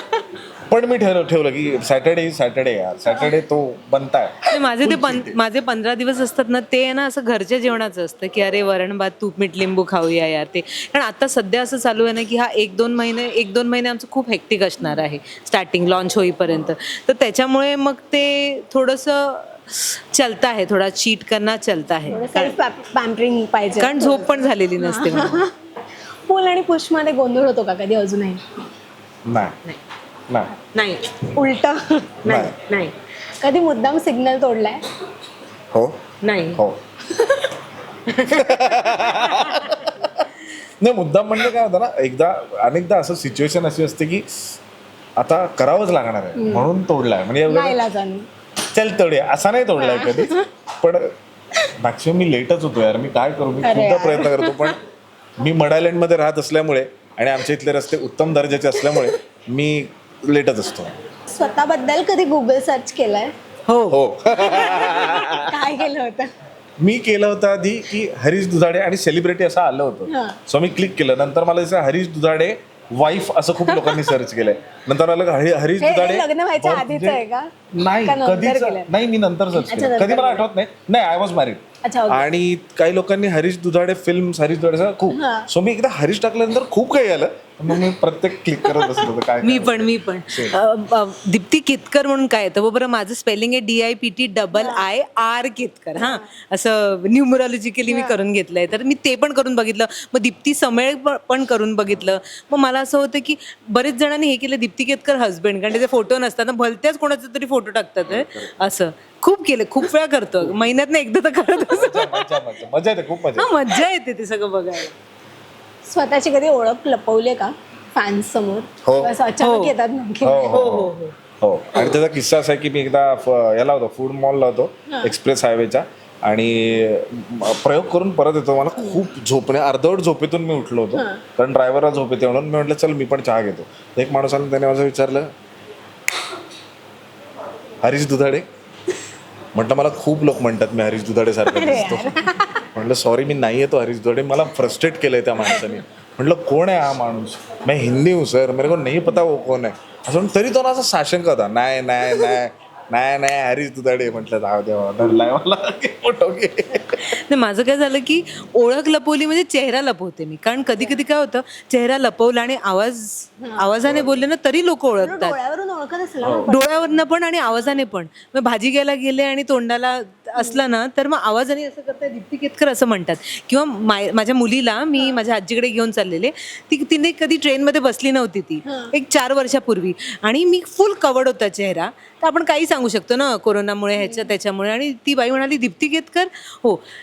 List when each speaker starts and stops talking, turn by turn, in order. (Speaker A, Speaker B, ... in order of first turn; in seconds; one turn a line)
Speaker A: 0.7-5.4
Speaker B: 4.5-22.6
Speaker C: 22.1-25.5
Speaker B: 23.8-25.4
Speaker C: 26.3-28.4
Speaker A: 29.2-29.6
Speaker A: 30.3-30.5
Speaker B: 30.7-31.1
Speaker C: 31.3-32.2
Speaker B: 32.2-32.9
Speaker A: 32.2-32.5
Speaker C: 33.4-34.8
Speaker B: 36.2-36.6
Speaker B: 38.1-38.7
Speaker A: 38.2-44.2
Speaker B: 39.3-39.6
Speaker A: 45.2-47.8
Speaker C: 46.4-46.7
Speaker C: 47.5-48.3
Speaker A: 48.7-51.1
Speaker C: 49.8-50.5
Speaker A: 51.8-54.8
Speaker C: 53.6-54.8
Speaker A: 55.4-60.9
Speaker C: 58.8-59.1
Speaker C: 61.3-63.3
Speaker B: 63.7-64.0
Speaker A: 63.9-65.7
Speaker C: 64.3-66.3
Speaker A: 66.8-77.2
Speaker C: 70.1-70.4
Speaker C: 73.7-74.1
Speaker C: 75.8-77.5
Speaker A: 77.7-90.6
Speaker C: 78.0-78.9
Speaker C: 79.5-80.4
Speaker C: 81.8-82.2
Speaker C: 85.1-85.5
Speaker C: 88.6-89.0
Speaker B: 89.4-112.3
Speaker C: 94.5-94.9
Speaker C: 96.0-96.2
Speaker C: 97.9-98.2
Speaker A: 108.1-108.5
Speaker A: 111.7-113.6
Speaker B: 113.3-114.9
Speaker C: 115.8-120.7
Speaker A: 118.8-119.1
Speaker B: 119.4-119.7
Speaker A: 120.2-135.3
Speaker B: 120.5-121.1
Speaker C: 130.9-131.2
Speaker A: 137.8-138.4
Speaker A: 139.5-142.1
Speaker C: 141.4-142.7
Speaker A: 142.7-157.1
Speaker C: 145.4-145.8
Speaker B: 157.0-165.3
Speaker C: 163.4-163.7
Speaker A: 163.8-164.1
Speaker C: 165.0-167.0
Speaker A: 166.2-166.5
Speaker B: 166.4-186.8
Speaker C: 178.7-178.9
Speaker C: 184.0-184.3